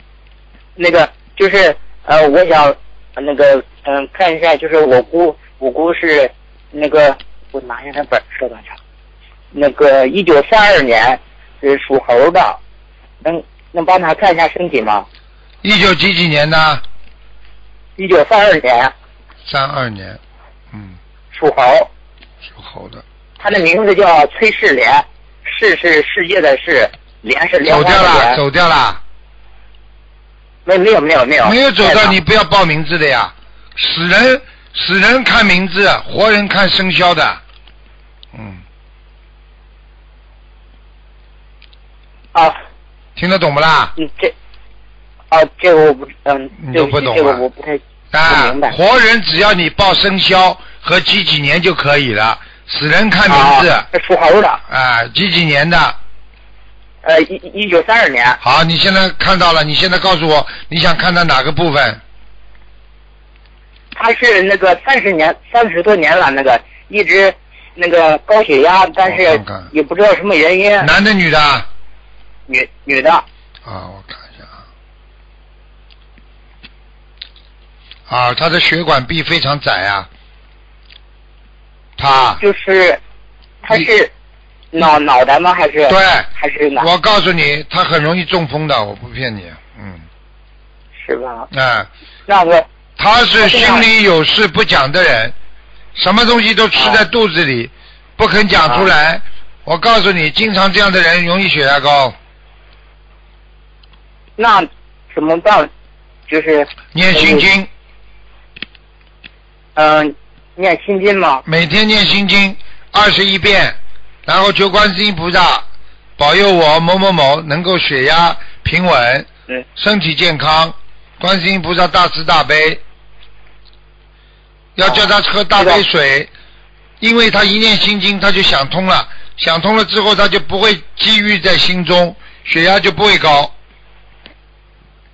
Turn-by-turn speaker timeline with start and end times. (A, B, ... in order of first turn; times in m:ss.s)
0:00.8-0:08.8 A
0:09.5-0:12.6 A
0:13.2-0:15.0 A
0:15.6-0:16.8 B
0:18.0-0:18.9 A
0:19.4-0:20.2 B
0:21.3-0:21.9 A
0:22.5-0:23.0 B
0:23.4-0:28.4 A
0:27.6-0:29.0 B
0:30.6-0:32.2 A
0:31.4-0:37.4 B
0:38.3-0:38.6 B
0:43.2-0:43.9 B
0:44.0-0:44.3 A
0:45.3-0:48.8 A
0:46.6-0:47.4 B
0:48.1-0:53.9 B
0:53.3-0:54.6 A
0:54.7-0:56.0 B
0:57.0-0:58.4 A
0:58.4-1:02.0 B
1:03.9-1:10.9 A
1:09.0-1:09.7 B
1:10.8-1:11.7 B
1:12.5-1:13.2 A
1:13.6-1:14.5 B
1:18.1-1:20.1 B
1:22.0-1:22.4 B
1:22.4-1:23.0 A
1:23.6-1:24.1 A
1:24.7-1:26.9 A
1:25.9-1:30.0 B
1:31.0-1:31.5 A
1:31.5-1:31.9 B
1:32.3-1:32.6 A
1:33.0-1:35.3 B
1:33.4-1:33.9 A
1:35.9-1:42.2 B
1:36.8-1:37.0 A
1:38.6-1:38.9 A
1:44.4-1:45.7 A
1:46.3-1:47.4 A
1:46.9-1:47.7 B
1:49.8-1:51.4 A
1:51.4-1:55.6 B
1:56.2-2:02.8 B
2:04.8-2:06.3 B
2:04.8-2:05.8 A
2:07.0-2:13.5 B